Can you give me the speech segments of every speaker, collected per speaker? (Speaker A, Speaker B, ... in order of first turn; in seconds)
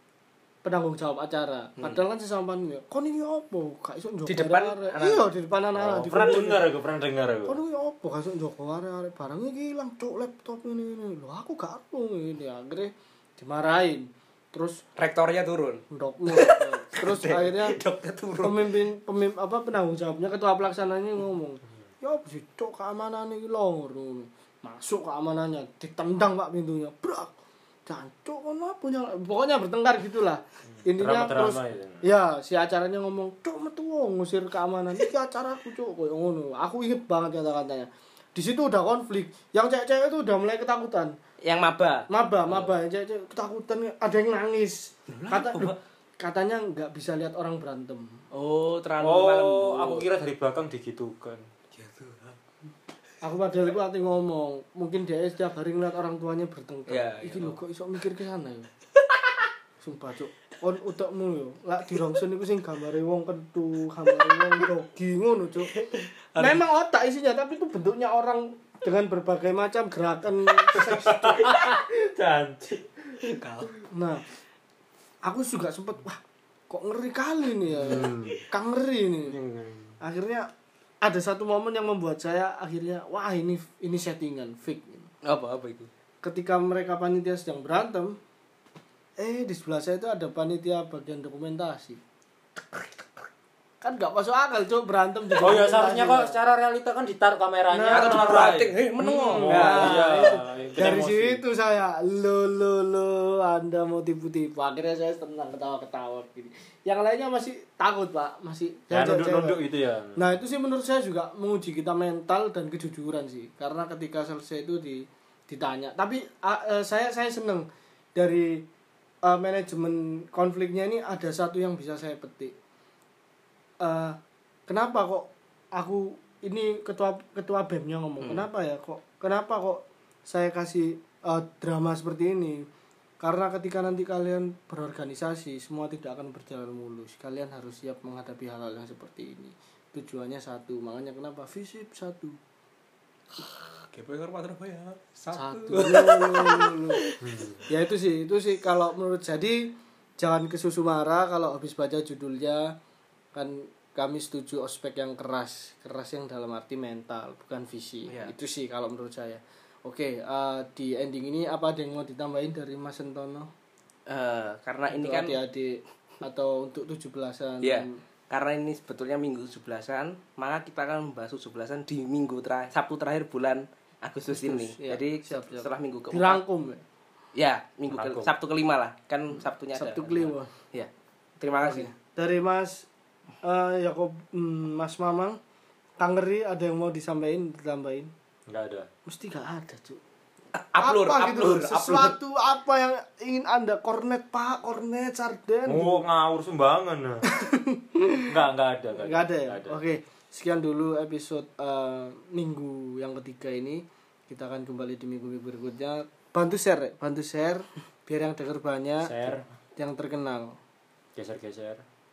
Speaker A: 0.6-6.6, 7.5-14.8, 15.9-17.8, 18.4-27.4, 27.9-41.2, 42.1-48.2, 53.2-58.7, 59.8-65.8, 66.4-71.6, 73.8-74.2, 75.2-79.4, 80.0-80.5, 81.0-85.1, 86.2-88.2, 89.2-92.0, 93.8-96.4, 97.7-109.6, 110.2-118.7, 119.2-122.5, 123.8-132.7, 133.2-142.4, 145.3-147.0, 147.7-152.8, 153.3-163.5, 164.9-168.0, 174.3-176.8, 179.8-180.5, 181.6-182.9, 183.4-185.4, 186.0-188.1, 189.1-190.0, 190.8-196.0, 197.3-198.3, 198.9-210.6
Speaker B: 4.3-5.3, 15.0-18.7, 41.4-42.7, 45.1-45.8, 48.3-50.1, 51.7-52.4, 56.9-57.6, 64.3-64.7, 65.7-66.6, 71.5-71.8, 73.2-73.7, 85.2-85.9, 97.9-100.4, 128.2-128.5, 143.4-147.6, 164.1-165.4, 167.6-176.4, 177.4-181.9, 190.5-192.2
Speaker C: 5.8-7.6, 30.8-32.0, 49.0-51.5, 70.7-72.8, 77.8-78.4, 79.3-80.0, 95.4-101.4, 108.9-110.3, 147.2-147.6, 177.9-178.3, 188.5-188.9, 195.7-197.3, 198.3-199.8, 209.0-209.5, 211.2-211.8